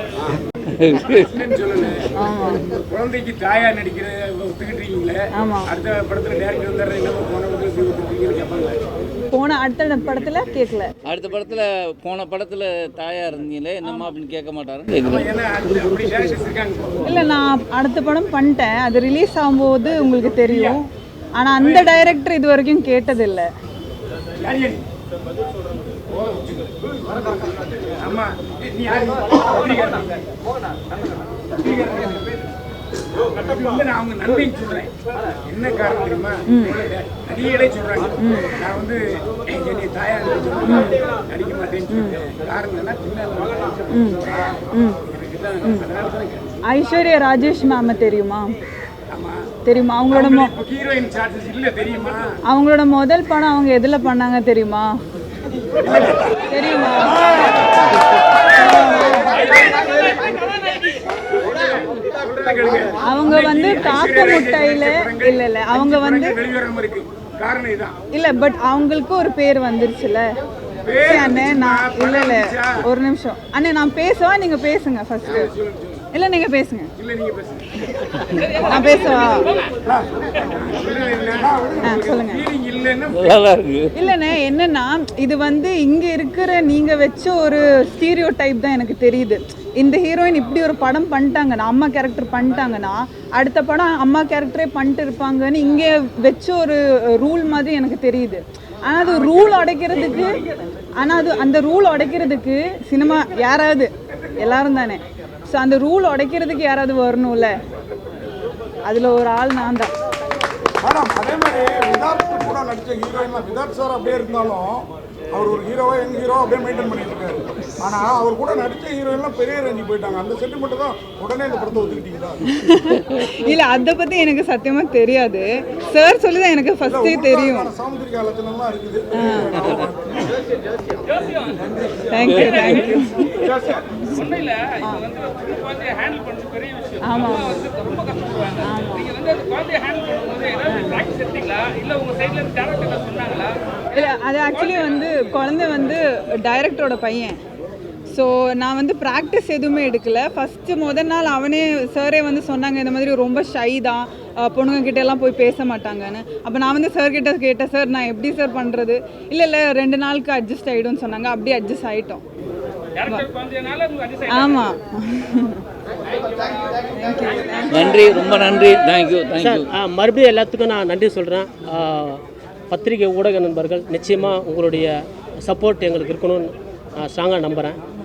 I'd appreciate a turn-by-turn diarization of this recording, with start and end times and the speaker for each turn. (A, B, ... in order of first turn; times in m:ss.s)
0:00.7-0:01.3 A
0:01.3-0:02.1 B
0:02.1-0:02.6 C
0:02.7-0:08.8 B
0:05.4-0:05.7 C
0:09.3-0:10.9 C
0:11.0-0:15.3 A
0:13.8-0:14.1 C
0:15.0-0:17.1 B
0:17.0-0:20.9 C
0:20.4-0:20.8 B
0:21.4-0:23.5 C
0:21.6-0:22.0 B
0:24.4-0:24.8 B
0:26.1-0:26.7 B
0:28.0-0:30.2 B
0:31.6-0:32.4 B
0:33.4-0:34.9 B
0:35.4-0:44.5 B
0:36.5-0:36.8 C
0:38.2-0:38.6 C
0:40.6-0:41.0 C
0:41.9-0:42.2 C
0:43.9-0:45.0 C
0:45.0-0:46.5 B
0:46.7-0:48.5 C
0:49.1-0:49.5 B
0:49.6-0:50.5 C
0:50.1-0:52.4 B
0:52.5-0:54.9 C
0:55.8-0:57.7 B
0:56.5-0:57.3 C
0:58.5-0:59.4 C
0:58.7-1:00.4 B
1:01.2-1:08.0 B
1:03.0-1:06.4 C
1:08.1-1:10.2 C
1:10.8-1:12.8 B
1:11.0-1:15.5 C
1:15.2-1:16.0 B
1:16.1-1:16.9 C
1:17.0-1:18.1 B
1:18.4-1:19.6 D
1:18.6-1:19.5 C
1:18.6-1:19.1 B
1:20.4-1:23.5 B
1:21.4-1:22.0 E
1:21.8-1:22.4 C
1:23.1-1:23.9 A
1:24.0-1:40.4 C
1:41.0-1:43.9 C
1:44.4-1:47.5 C
1:48.9-1:49.9 C
1:50.8-2:02.4 E
2:02.5-2:07.7 C
2:06.9-2:10.3 E
2:09.1-2:09.6 C
2:11.1-2:11.6 D
2:12.1-2:14.2 C
2:12.2-2:13.5 A
2:14.1-2:23.6 D
2:14.8-2:15.0 C
2:17.0-2:17.6 C
2:18.6-2:19.1 C
2:20.7-2:21.0 C
2:23.9-2:27.4 C
2:28.1-2:42.2 C
2:43.0-2:44.5 D
2:44.3-2:45.6 C
2:46.9-2:48.4 C
2:47.7-2:49.7 A
2:49.4-2:57.8 F